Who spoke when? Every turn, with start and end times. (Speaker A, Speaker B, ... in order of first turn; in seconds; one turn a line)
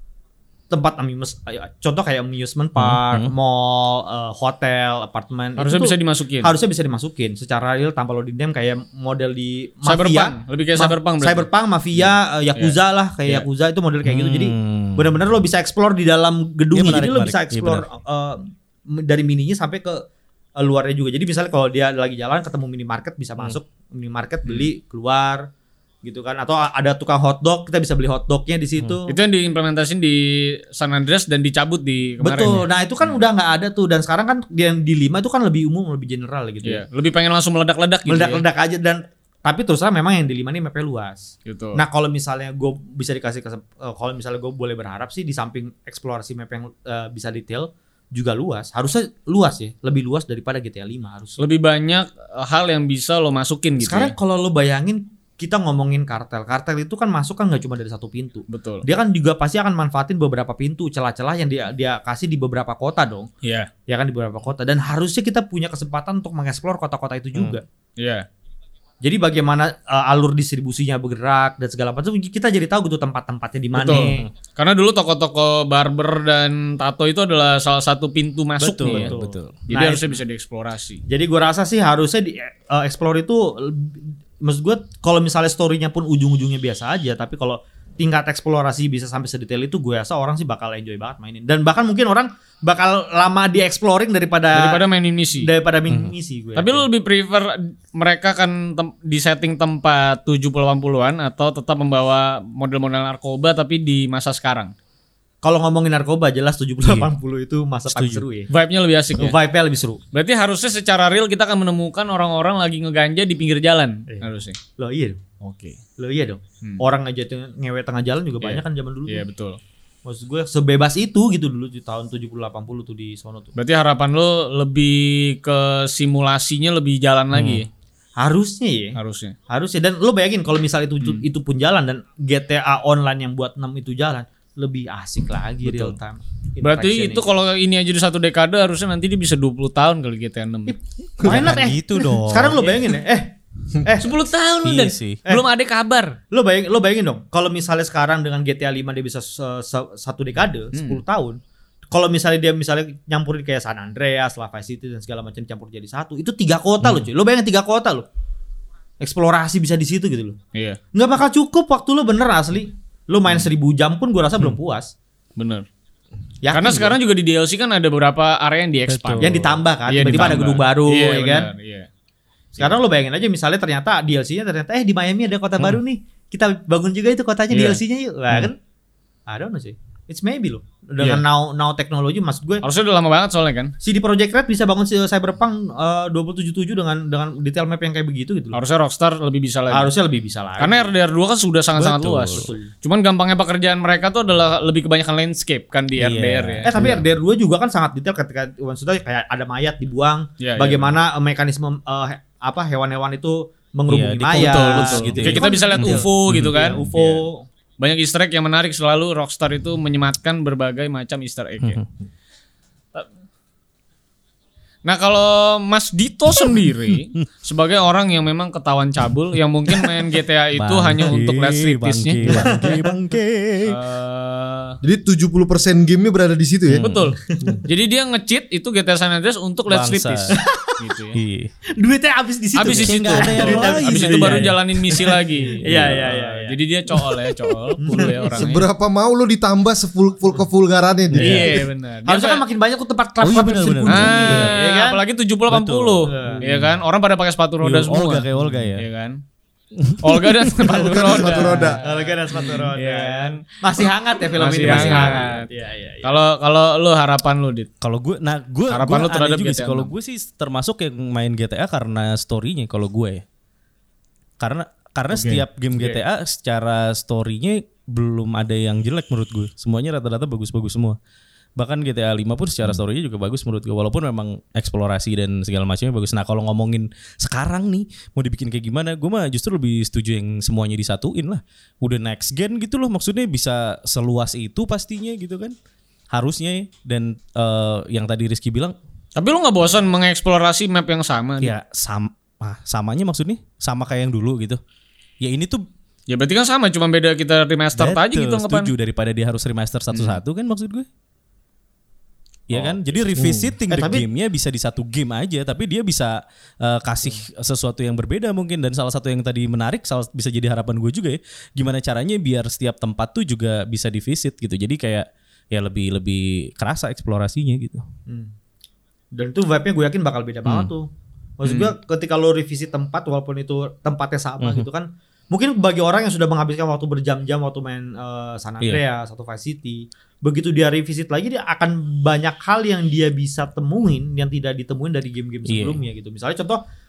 Speaker A: 0.7-25.5
Speaker B: 2.8-3.3
Speaker C: 5.6-6.5
Speaker C: 9.8-11.5
Speaker C: 12.6-13.4
Speaker B: 14.0-15.1
Speaker B: 16.7-17.8
Speaker A: 26.0-29.2
Speaker C: 29.1-32.6
Speaker A: 32.2-36.8
Speaker C: 36.6-38.4
Speaker A: 38.1-51.4
Speaker C: 41.4-41.8
Speaker C: 51.4-54.1
Speaker A: 53.8-63.3
Speaker C: 58.5-58.9
Speaker C: 63.4-63.7
Speaker A: 63.9-67.6
Speaker C: 68.0-68.3
Speaker A: 69.0-74.2
Speaker C: 73.7-79.1
Speaker B: 73.8-74.3
Speaker B: 78.6-79.5
Speaker A: 78.8-80.2
Speaker C: 79.7-81.0
Speaker A: 81.1-94.8
Speaker C: 94.5-95.5
Speaker A: 95.4-96.8
Speaker B: 95.9-96.1
Speaker C: 96.5-104.7
Speaker A: 105.4-108.5
Speaker B: 106.8-107.1
Speaker B: 107.9-108.2
Speaker C: 108.5-109.4
Speaker A: 109.2-110.0
Speaker C: 110.1-114.6
Speaker A: 114.1-115.2
Speaker C: 115.4-115.8
Speaker A: 116.0-119.2
Speaker C: 118.4-119.6
Speaker A: 120.0-123.5
Speaker C: 123.5-127.7
Speaker B: 127.3-127.6
Speaker A: 128.2-129.0
Speaker C: 128.9-129.3
Speaker A: 129.5-137.3
Speaker B: 135.6-135.9
Speaker C: 136.6-140.7
Speaker A: 140.7-144.2
Speaker D: 141.2-141.5
Speaker B: 141.2-142.8
Speaker C: 143.9-146.2
Speaker B: 144.6-145.2
Speaker A: 146.3-151.4
Speaker C: 150.7-151.0
Speaker A: 151.9-158.1
Speaker B: 156.8-157.1
Speaker A: 159.0-160.4
Speaker C: 160.5-160.8
Speaker A: 160.9-164.9
Speaker C: 165.4-165.7
Speaker A: 166.4-167.0
Speaker C: 166.5-169.3
Speaker B: 168.9-170.6
Speaker A: 169.2-171.5
Speaker C: 169.8-171.9
Speaker A: 172.6-178.6
Speaker C: 177.5-177.8
Speaker A: 179.3-182.7
Speaker C: 181.0-181.2
Speaker C: 182.6-183.7
Speaker A: 183.8-188.6
Speaker C: 188.5-189.9
Speaker A: 189.7-190.9
Speaker C: 190.6-196.7
Speaker B: 191.7-192.5
Speaker A: 192.3-192.7
Speaker B: 196.0-197.0
Speaker A: 196.6-207.5
Speaker C: 200.4-201.0
Speaker B: 203.9-207.0
Speaker C: 204.3-207.2
Speaker C: 207.8-211.8
Speaker C: 214.8-222.5
Speaker B: 216.3-217.2
Speaker B: 220.5-223.8
Speaker A: 222.2-222.9
Speaker C: 223.6-224.8
Speaker D: 224.8-226.8
Speaker B: 226.7-227.1
Speaker C: 226.8-231.2
Speaker A: 227.3-227.6
Speaker B: 229.7-230.3
Speaker A: 230.3-230.8
Speaker B: 231.1-231.5
Speaker A: 231.7-236.6
Speaker C: 232.5-238.7
Speaker B: 232.7-234.6
Speaker B: 235.6-236.1
Speaker A: 237.8-238.4
Speaker D: 238.4-241.6
Speaker B: 241.1-241.4
Speaker C: 241.2-242.4
Speaker A: 241.2-241.5
Speaker A: 242.1-245.0
Speaker B: 243.2-244.6
Speaker C: 243.9-249.2
Speaker B: 245.5-246.7
Speaker A: 246.1-246.5
Speaker B: 247.6-248.8
Speaker B: 249.8-250.6
Speaker C: 250.0-253.4
Speaker D: 250.7-251.8
Speaker B: 251.3-251.8
Speaker A: 251.8-256.1
Speaker C: 254.4-255.5
Speaker B: 254.4-255.4
Speaker C: 256.0-257.7
Speaker B: 257.8-263.2
Speaker C: 258.7-259.9
Speaker B: 264.4-271.0
Speaker C: 265.1-266.0
Speaker B: 271.6-285.5
Speaker B: 286.1-288.8
Speaker C: 289.1-291.5
Speaker B: 291.4-294.6
Speaker B: 295.2-295.6
Speaker C: 296.1-298.7
Speaker B: 297.8-300.9
Speaker C: 299.9-300.2
Speaker B: 302.5-317.8
Speaker D: 303.2-303.5
Speaker A: 303.7-304.1
Speaker A: 318.1-318.3
Speaker A: 319.1-336.6
Speaker B: 320.4-320.7
Speaker B: 321.4-321.7
Speaker B: 324.4-324.7
Speaker B: 335.4-335.8